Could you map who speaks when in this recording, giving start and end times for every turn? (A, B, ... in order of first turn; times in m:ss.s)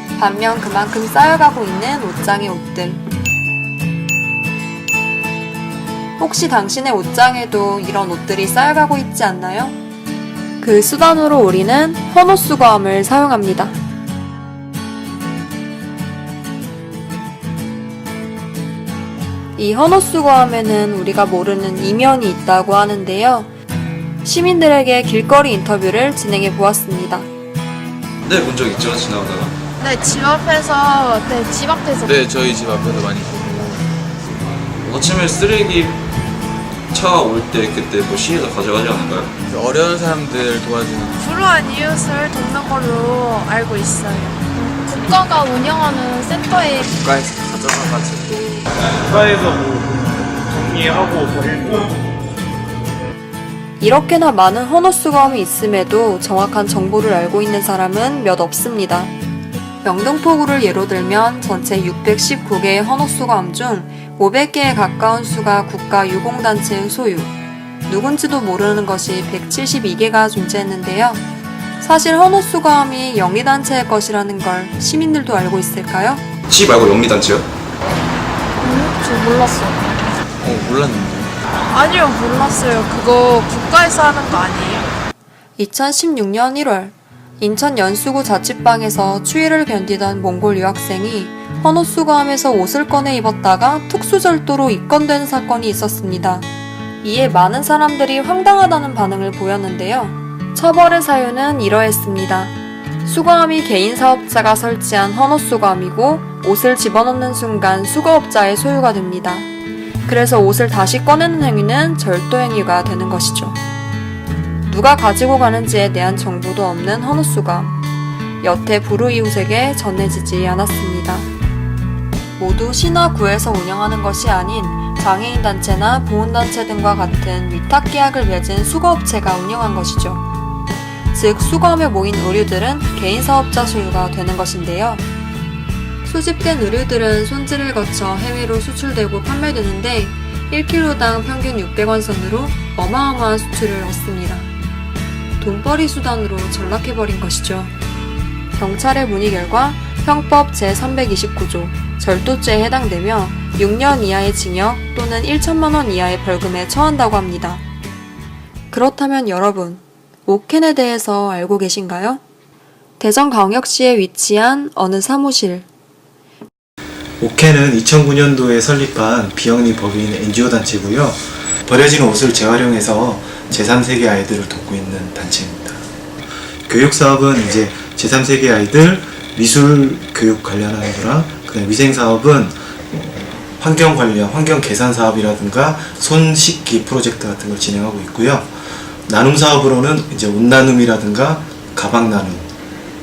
0:00.2-0:03.0 A
0:06.2-0:09.8 A
0:10.6-0:13.7 A
0:19.6-0:23.5 A
0:24.2-0:27.3 A
0:28.2-0:29.5 B
0:29.8-0:32.1 C
0:32.0-0:33.8 D
0:34.8-0:36.0 B
0:36.9-0:39.3 B
0:39.5-0:41.2 D
0:41.2-0:46.9 C
0:47.0-0:48.2 D
0:49.1-0:51.9 E
0:53.8-0:59.1 A
0:59.8-1:07.3 A
1:07.9-1:11.2 A
1:11.8-1:16.2 A
1:16.5-1:17.5 B
1:18.6-1:20.0 C
1:20.4-1:21.4 D
1:21.7-1:24.9 C
1:25.6-1:36.4 A
1:37.0-1:49.5 A
1:50.0-1:53.6 A
1:54.6-1:57.8 A
1:58.4-2:01.2 A
2:02.4-2:10.2 A
2:11.1-2:15.0 A
2:16.0-2:24.5 A
2:25.4-2:27.7 A
2:28.6-2:37.6 A
2:38.7-2:42.2 A
2:43.0-2:45.6 A
2:47.2-2:55.8 F
2:56.7-3:12.5 F